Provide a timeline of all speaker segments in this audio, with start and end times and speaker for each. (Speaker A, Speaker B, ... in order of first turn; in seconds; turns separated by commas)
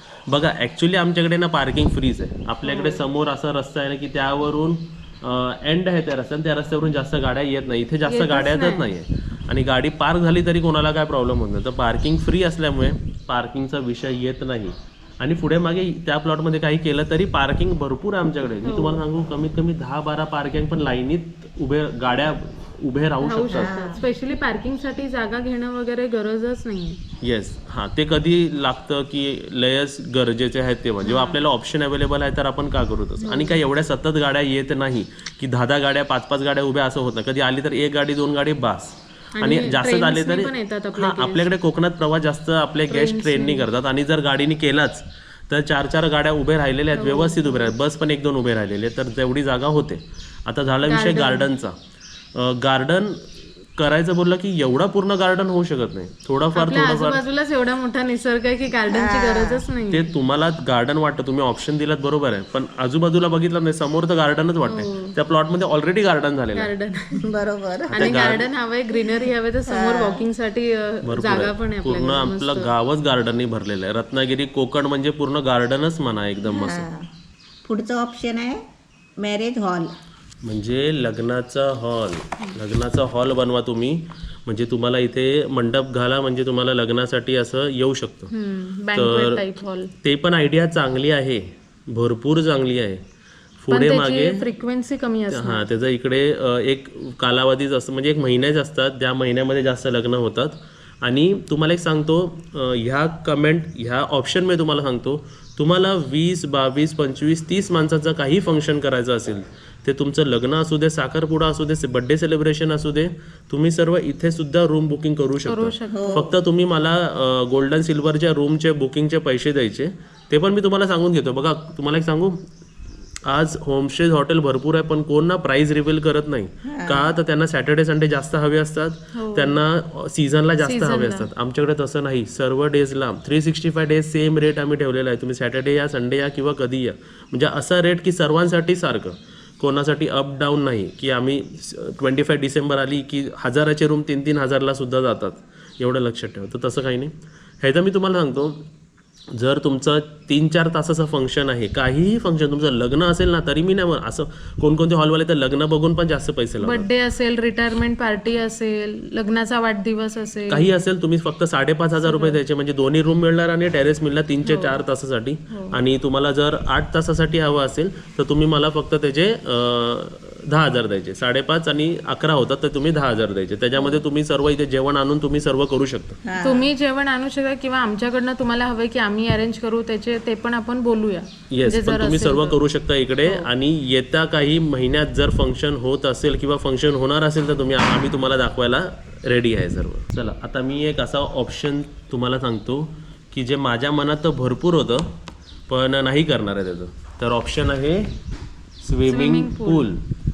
Speaker A: 0.3-24.0, Speaker B: 2.6-3.1, Speaker B: 8.1-8.9, Speaker B: 18.6-19.0, Speaker B: 23.2-27.0, Speaker C: 23.5-24.0, Speaker A: 27.2-51.8, Speaker B: 31.1-31.4, Speaker B: 33.2-33.6, Speaker B: 39.4-41.5, Speaker B: 42.9-43.7, Speaker B: 46.9-47.7, Speaker B: 50.9-51.5, Speaker A: 52.3-57.2, Speaker B: 56.5-60.1, Speaker C: 58.9-59.6, Speaker A: 59.9-66.7, Speaker B: 64.7-65.2, Speaker B: 66.6-67.3, Speaker C: 67.2-68.1, Speaker A: 67.9-68.5, Speaker B: 68.0-72.7, Speaker C: 69.0-70.2, Speaker A: 71.0-76.9, Speaker C: 76.5-77.1, Speaker C: 77.7-78.6, Speaker C: 79.2-79.9, Speaker A: 80.4-88.3, Speaker B: 88.3-89.9, Speaker A: 88.9-89.5, Speaker A: 90.0-93.0, Speaker A: 93.6-94.5, Speaker B: 93.7-95.7, Speaker A: 95.3-122.4, Speaker B: 115.4-116.3, Speaker C: 115.9-116.3, Speaker A: 123.3-148.6, Speaker C: 126.6-127.1, Speaker B: 129.2-129.6, Speaker B: 130.6-131.3, Speaker A: 149.3-156.9, Speaker B: 156.6-160.7, Speaker A: 160.5-176.2, Speaker B: 162.0-162.4, Speaker B: 164.4-164.8, Speaker B: 165.5-165.8, Speaker B: 173.8-174.0, Speaker C: 176.2-176.7, Speaker B: 176.4-182.6, Speaker A: 181.5-195.1, Speaker A: 195.7-198.1, Speaker A: 198.8-200.0, Speaker B: 199.1-199.9